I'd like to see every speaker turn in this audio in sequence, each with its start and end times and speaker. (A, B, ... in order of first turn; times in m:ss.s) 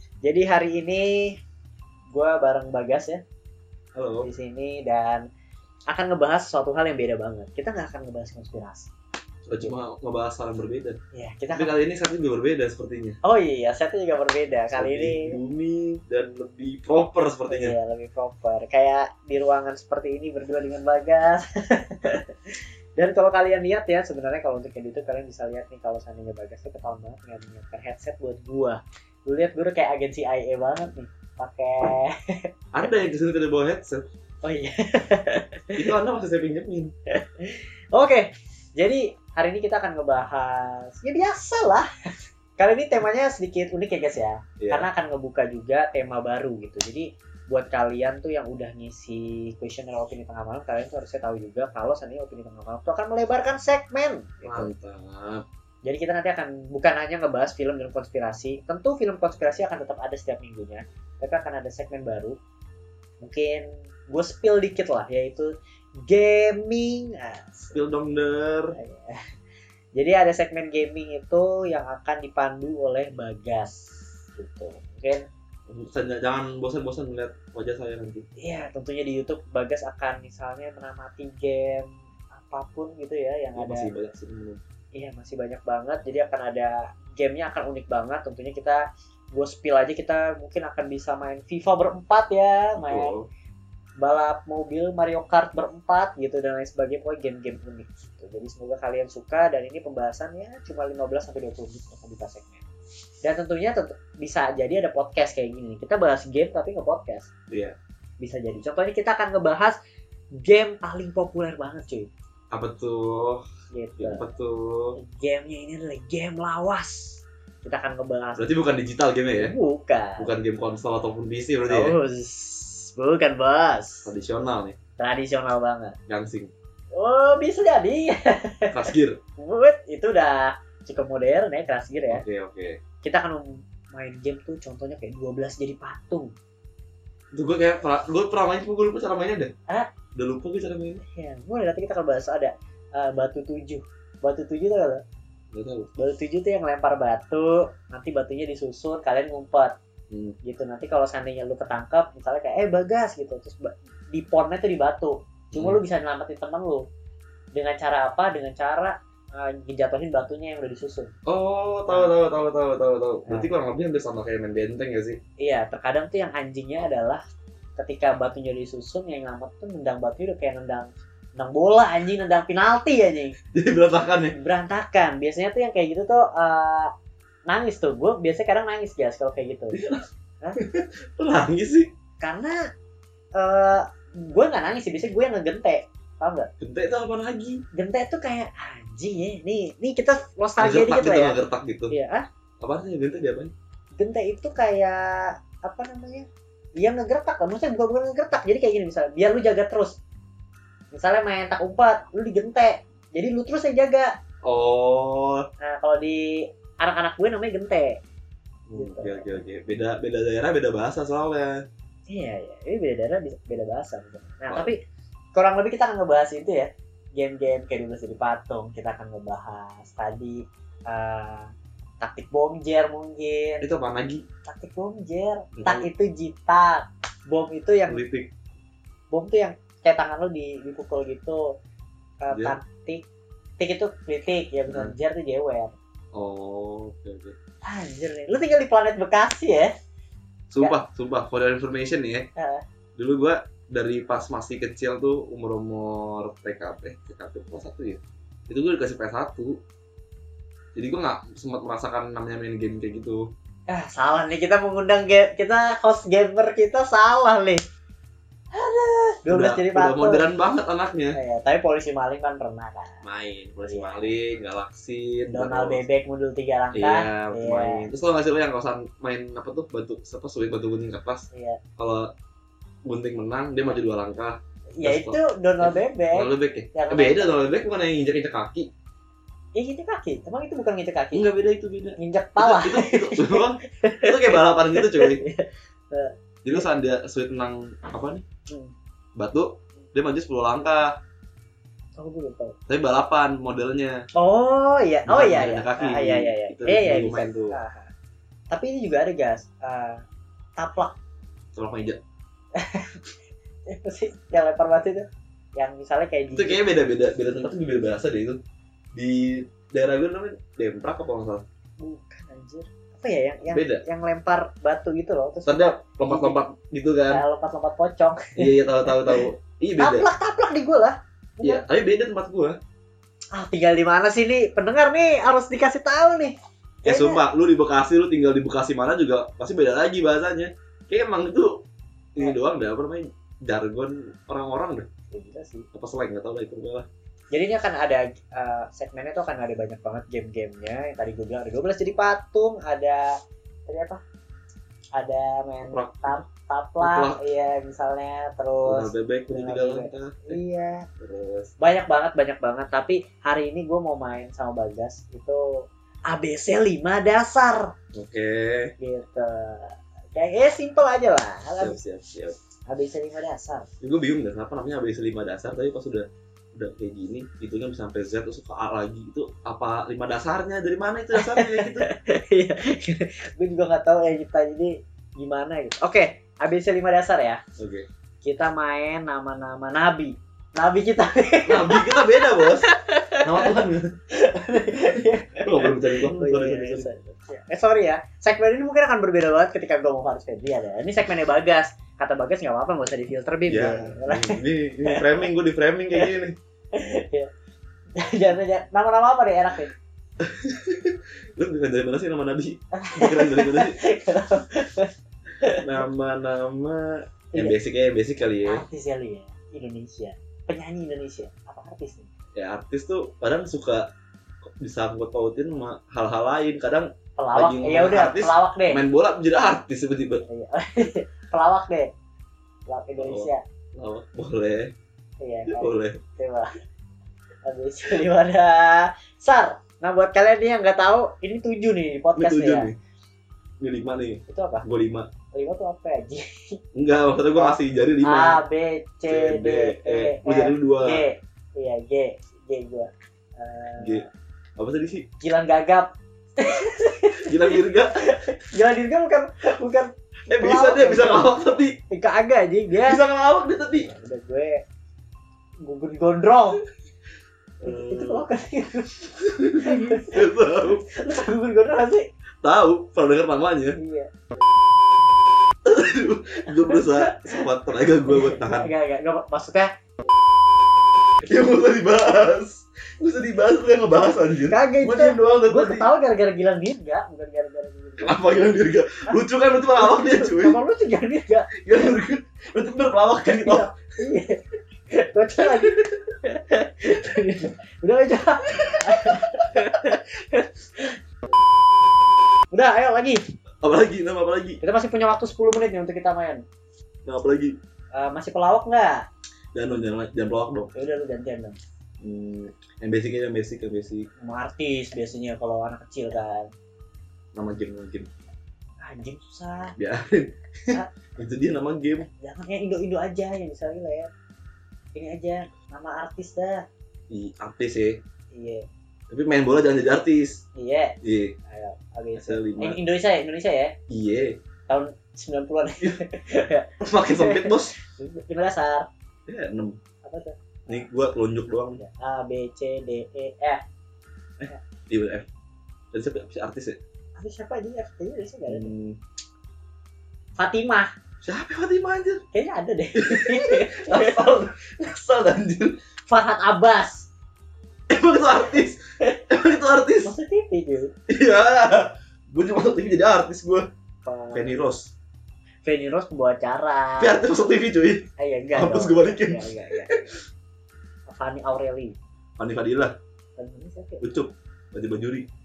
0:00.2-0:01.4 A
0:02.1-0:03.2 A
0:04.0-0:04.3 B
0:04.2-0:05.2 A
0:05.9-0:08.9 A
0:09.5-0:11.0 B
0:11.1-0:11.7 A
0:11.5-0:13.2 B
0:13.2-0:15.4 A
0:14.7-0:17.8 B
0:17.5-0:32.9 A
0:32.7-0:34.1 B
0:34.4-0:35.9 A
0:35.8-0:36.9 B
0:37.1-0:41.9 A
0:42.6-0:54.7 A
0:44.6-0:44.9 B
0:54.4-0:55.4 B
0:55.8-1:02.4 A
1:03.2-1:05.5 A
1:06.1-1:08.1 A
1:07.7-1:08.8 B
1:08.7-1:09.2 A
1:10.0-1:15.2 A
1:15.7-1:18.3 B
1:18.4-1:23.9 A
1:23.6-1:24.6 B
1:25.0-1:28.8 A
1:29.3-1:33.1 A
1:32.8-1:33.3 B
1:34.0-1:42.7 A
1:43.2-1:47.3 A
1:47.5-1:47.8 B
1:48.2-1:49.8 A
1:50.4-1:52.1 A
1:52.5-1:53.4 B
1:53.7-1:54.2 A
1:54.0-1:55.0 B
1:55.0-1:58.5 A
1:58.4-1:59.6 B
1:59.3-2:00.3 A
2:00.2-2:02.0 B
2:01.6-2:04.1 A
2:04.0-2:04.8 B
2:05.0-2:06.0 A
2:06.1-2:06.5 B
2:06.9-2:08.8 A
2:08.7-2:09.2 B
2:09.4-2:12.2 A
2:12.1-2:12.8 B
2:13.0-2:16.3 A
2:17.3-2:19.5 B
2:20.2-2:21.0 B
2:21.1-2:25.0 A
2:25.5-2:26.0 B
2:26.0-2:29.7 A
2:30.1-2:30.4 B
2:30.4-2:36.9 A
2:35.5-2:35.8 B
2:37.5-2:41.1 A
2:41.2-2:45.2 B
2:41.9-2:42.1 A
2:43.2-2:43.5 A
2:45.4-2:47.2 A
2:47.8-2:53.4 A
2:53.5-2:54.3 B
2:54.3-2:56.9 A
2:57.5-2:59.8 A
2:59.7-3:00.0 B
3:00.6-3:01.9 B
3:02.2-3:02.6 A
3:03.4-3:06.5 A
3:06.6-3:07.6 B
3:07.7-3:12.2 A
3:10.6-3:11.9 B
3:12.6-3:13.5 B
3:14.0-3:20.0 A
3:20.9-3:24.1 A
3:24.4-3:25.5 B
3:25.6-3:28.0 A
3:28.7-3:31.6 B
3:28.8-3:29.4 A
3:32.1-3:34.8 A
3:35.3-3:43.6 A
3:43.6-3:44.2 B
3:44.5-3:48.0 A
3:45.5-3:45.9 B
3:47.9-3:48.3 B
3:49.1-3:51.4 A
3:52.2-3:53.0 A
3:52.3-3:52.6 B
3:53.6-3:55.7 A
3:54.7-3:54.9 B
3:56.1-3:57.4 B
3:57.7-3:59.7 A
4:00.5-4:02.3 B
4:02.4-4:02.6 A
4:03.0-4:09.6 B
4:10.8-4:13.2 B
4:13.7-4:17.6 A
4:18.5-4:20.2 A
4:19.3-4:21.2 B
4:21.1-4:23.0 A
4:23.0-4:25.8 B
4:23.7-4:24.1 A
4:25.3-4:27.9 A
4:26.7-4:31.2 B
4:31.3-4:31.6 A
4:31.8-4:32.1 B
4:32.9-4:38.7 B
4:34.8-4:37.5 A
4:39.6-4:41.3 A
4:41.1-4:45.2 B
4:42.0-4:46.7 A
4:46.4-4:48.2 B
4:48.5-4:48.7 A
4:49.2-4:51.0 B
4:52.0-4:52.6 A
4:52.7-4:54.0 B
4:54.1-4:57.9 A
4:55.1-4:57.6 B
4:58.5-5:00.0 A
5:00.6-5:00.9 A
5:01.6-5:02.0 B
5:02.6-5:03.1 A
5:03.7-5:06.6 A
5:06.3-5:08.4 B
5:08.9-5:11.4 B
5:11.8-5:16.4 A
5:13.4-5:13.8 B
5:15.4-5:17.2 B
5:17.1-5:19.3 A
5:18.4-5:20.1 B
5:19.8-5:21.6 A
5:21.4-5:22.6 B
5:23.4-5:27.2 A
5:26.9-5:31.6 B
5:32.1-5:34.9 B
5:35.1-5:35.7 A
5:35.7-5:36.9 B
5:37.3-5:43.1 A
5:43.7-5:44.0 A
5:45.0-5:50.8 A
5:45.7-5:46.2 B
5:46.8-5:47.2 B
5:48.6-5:50.4 B
5:51.0-5:51.5 B
5:51.6-5:55.4 A
5:56.1-5:57.7 A
5:57.9-5:58.7 B
5:58.8-6:01.8 A
6:01.6-6:02.4 B
6:02.7-6:03.7 A
6:03.8-6:11.9 B
6:11.2-6:17.4 A
6:17.6-6:17.9 B
6:18.2-6:23.6 A
6:21.4-6:22.7 B
6:23.2-6:24.0 B
6:24.1-6:35.3 A
6:25.4-6:26.9 B
6:33.5-6:36.4 B
6:36.7-6:37.3 A
6:38.0-6:39.7 A
6:40.2-6:43.8 B
6:42.7-6:45.8 A
6:45.6-6:48.6 B
6:48.4-6:52.1 A
6:52.4-6:53.9 B
6:54.4-7:00.2 B
6:57.2-6:58.9 A
7:00.3-7:01.9 A
7:02.7-7:03.4 A
7:03.0-7:04.7 B
7:05.2-7:06.5 A
7:05.5-7:06.0 B
7:07.4-7:12.7 A
7:12.2-7:12.8 B
7:13.6-7:15.1 B
7:14.3-7:14.7 A
7:15.3-7:16.6 A
7:16.8-7:18.4 B
7:17.4-7:24.1 A
7:19.1-7:21.0 B
7:23.8-7:24.0 B
7:24.6-7:25.1 B
7:25.2-7:31.3 A
7:27.2-7:28.1 B
7:30.3-7:31.8 B
7:31.9-7:33.0 A
7:32.8-7:33.9 B
7:33.8-7:34.6 A
7:35.6-7:36.7 A
7:37.6-7:38.2 B
7:37.6-7:42.1 A
7:39.2-7:40.8 B
7:42.4-7:43.8 B
7:43.7-7:44.1 A
7:45.6-7:48.7 B
7:46.6-7:47.4 A
7:48.1-7:49.7 A
7:51.2-7:55.9 B
7:54.5-7:58.2 A
7:58.0-8:00.6 B
7:59.8-8:01.8 A
8:01.6-8:03.7 B
8:03.2-8:04.4 A
8:04.9-8:11.0 A
8:05.4-8:06.0 B
8:12.5-8:13.2 A
8:13.6-8:14.6 B
8:14.6-8:16.4 A
8:17.0-8:17.6 B
8:17.9-8:19.1 A
8:19.5-8:20.7 B
8:20.7-8:21.6 A
8:22.0-8:24.1 B
8:24.2-8:26.5 A
8:27.3-8:28.1 B
8:28.8-8:29.8 A
8:29.8-8:32.0 B
8:32.0-8:34.1 A
8:35.0-8:36.6 A
8:37.1-8:38.0 B
8:38.3-8:38.6 A
8:39.1-8:40.4 B
8:40.5-8:43.8 A
8:41.0-8:41.4 B
8:42.2-8:42.8 B
8:43.9-8:44.4 B
8:44.7-8:48.9 A
8:46.8-8:47.8 B
8:49.3-8:49.8 B
8:50.0-8:50.9 A
8:50.7-8:51.8 B
8:51.8-8:53.6 A
8:54.4-8:55.3 B
8:55.9-8:56.8 B
8:57.2-8:58.7 A
8:58.5-8:59.0 B
9:00.4-9:00.9 A
9:01.2-9:02.2 B
9:02.3-9:04.3 A
9:03.0-9:05.8 B
9:06.1-9:07.1 A
9:07.9-9:10.1 B
9:10.0-9:10.9 A
9:11.1-9:13.6 B
9:14.0-9:14.6 A
9:14.3-9:14.9 B
9:15.6-9:17.2 A
9:17.0-9:20.0 B
9:18.2-9:20.2 A
9:21.1-9:22.0 A
9:22.4-9:23.0 B
9:23.4-9:24.0 A
9:24.0-9:25.3 B